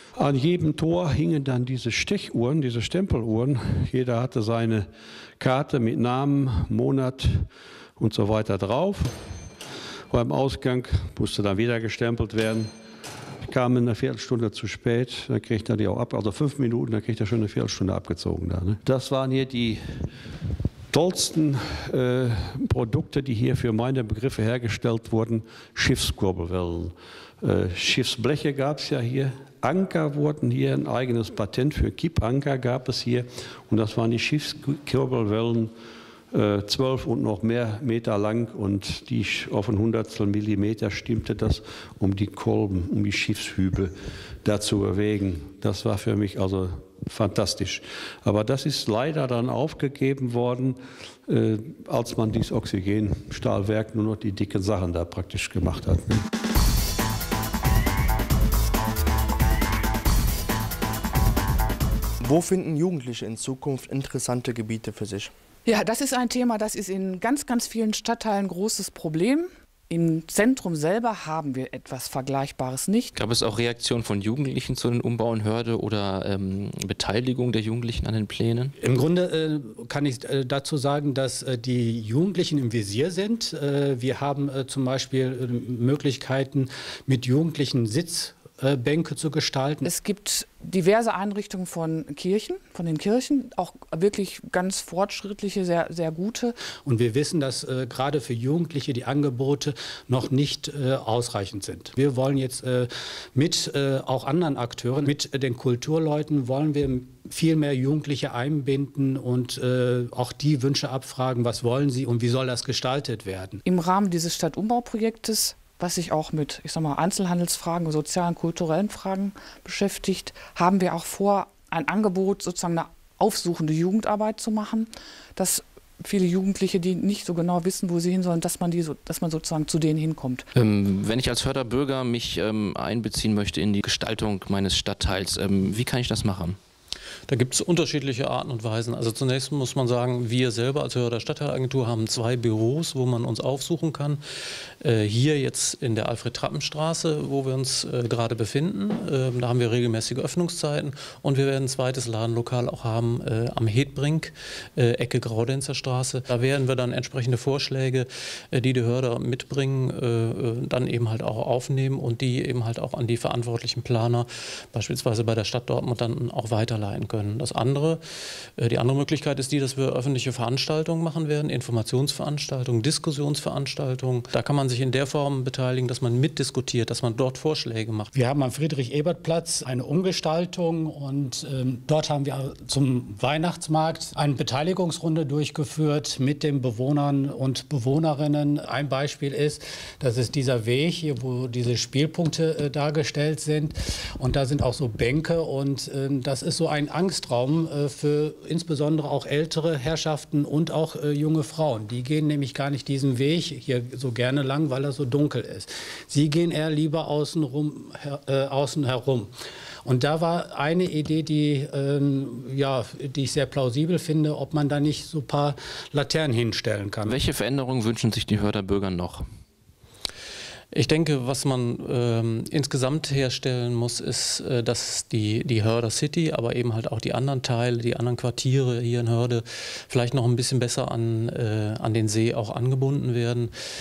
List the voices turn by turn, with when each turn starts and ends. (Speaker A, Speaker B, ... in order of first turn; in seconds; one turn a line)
Speaker A: 0.1-4.9
Speaker A: 5.4-9.1
Speaker A: 10.1-12.7
Speaker A: 13.5-20.1
Speaker A: 20.9-35.7
Speaker A: 36.3-43.9
Speaker A: 44.4-56.2
Speaker B: 62.2-65.3
Speaker C: 65.6-73.1
Speaker D: 73.2-78.7
Speaker E: 78.8-89.9
Speaker C: 89.8-96.5
Speaker E: 96.8-113.6
Speaker C: 113.6-130.5
Speaker D: 130.6-136.6
Speaker F: 137.3-144.2
Speaker F: 144.8-168.0
Speaker F: 168.6-178.1
Speaker E: 178.1-209.3
Speaker E: 209.8-217.2
Speaker D: 217.1-219.2
Speaker F: 220.7-233.5